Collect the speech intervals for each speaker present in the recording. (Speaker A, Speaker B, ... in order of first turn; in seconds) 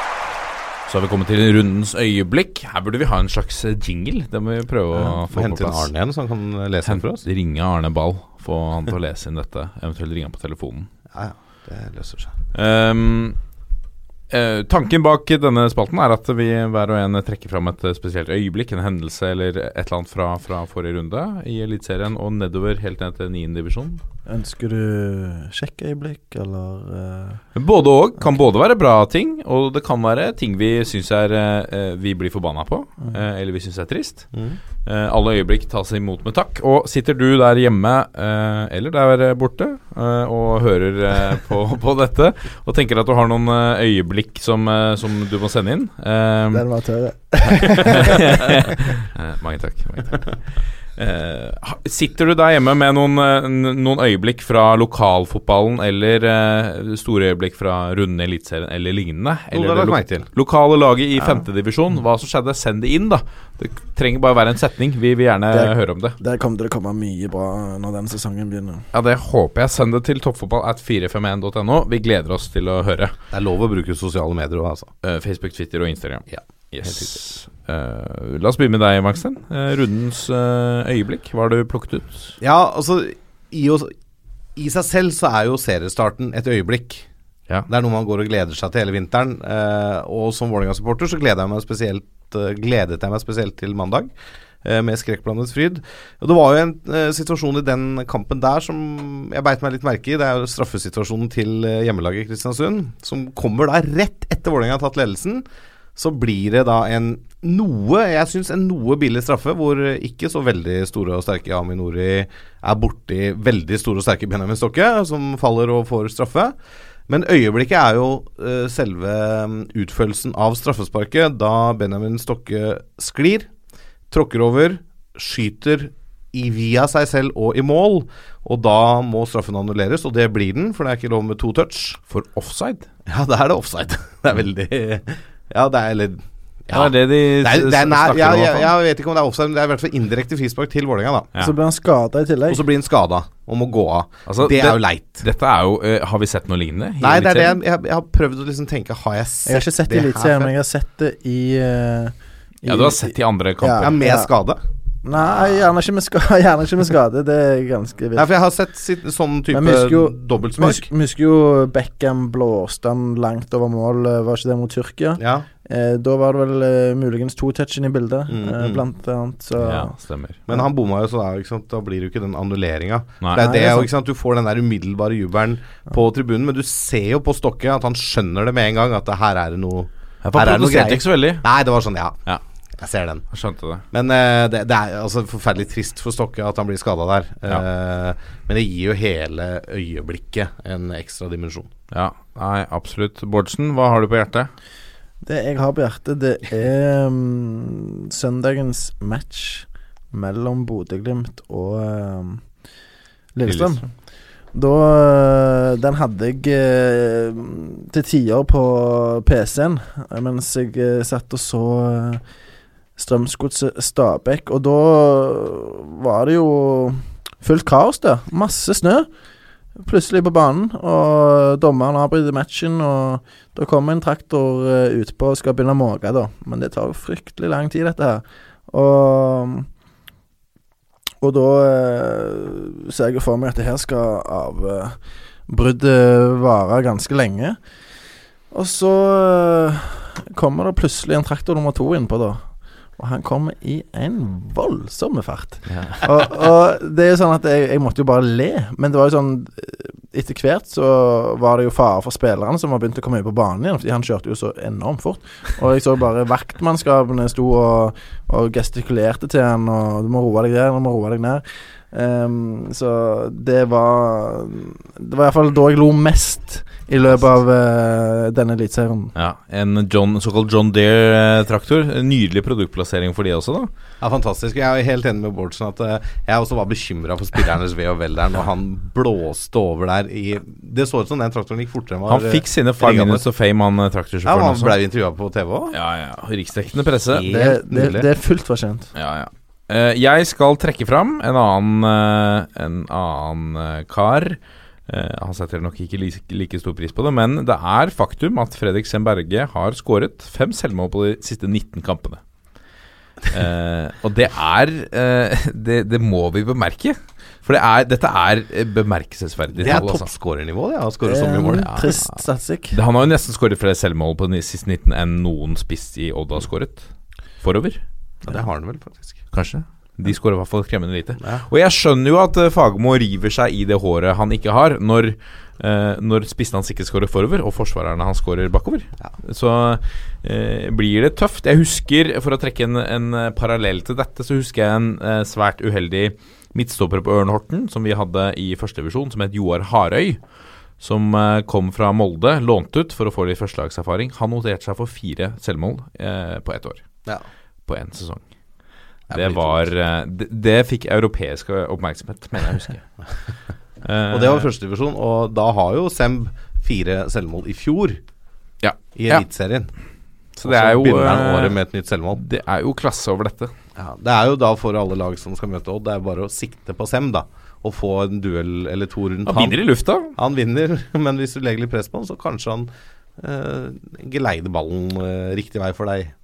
Speaker A: 0.9-5.9, 6.8-10.9, 12.5-13.4, 14.3-24.0, 27.6-34.3, 34.8-46.6, 47.7-66.2, 68.9-73.1, 75.0-82.4, 132.1-132.9, 136.7-138.7, 144.3-147.6, 152.7-153.9, 169.6-170.4, 173.2-173.8, 180.2-181.5, 183.3-183.8, 191.9-194.5, 203.4-203.8, 269.1-273.7, 282.1-284.8, 285.7-287.3, 288.9-302.2, 303.3-310.1, 311.5-312.2, 312.7-316.9, 317.4-317.8, 319.3-340.2, 340.8-346.8, 347.6-348.2, 349.1-352.9, 353.8-354.5, 358.6-359.2, 360.4-361.6, 362.1-363.5, 369.2-370.1
Speaker B: 5.1-7.2, 11.1-12.3, 59.5-60.3, 73.3-74.9, 82.4-83.9, 84.5-87.1, 87.7-94.1, 94.6-105.4, 106.0-116.5, 117.1-123.5, 124.1-132.0, 133.1-141.3, 142.5-145.2, 147.0-150.5, 153.8-154.6, 158.1-160.9, 165.2-165.5, 168.3-168.8, 170.5-182.2, 182.8-183.2, 183.9-191.7, 274.0-283.2, 284.2-285.8, 287.1-288.1, 309.6-311.7, 318.2-319.2, 349.1-349.7, 354.1-358.0, 358.9-359.7, 360.4-362.2, 363.8-369.6, 370.1-376.1
Speaker C: 24.3-27.4, 46.5-48.7, 65.5-68.8, 141.4-142.6, 149.4-154.3, 155.0-158.3, 159.5-169.9, 173.4-173.8, 195.2-202.4, 203.3-203.8, 204.5-212.2, 213.0-219.1, 219.8-229.7, 231.2-237.6, 238.5-269.1, 287.3-288.9, 311.1-312.8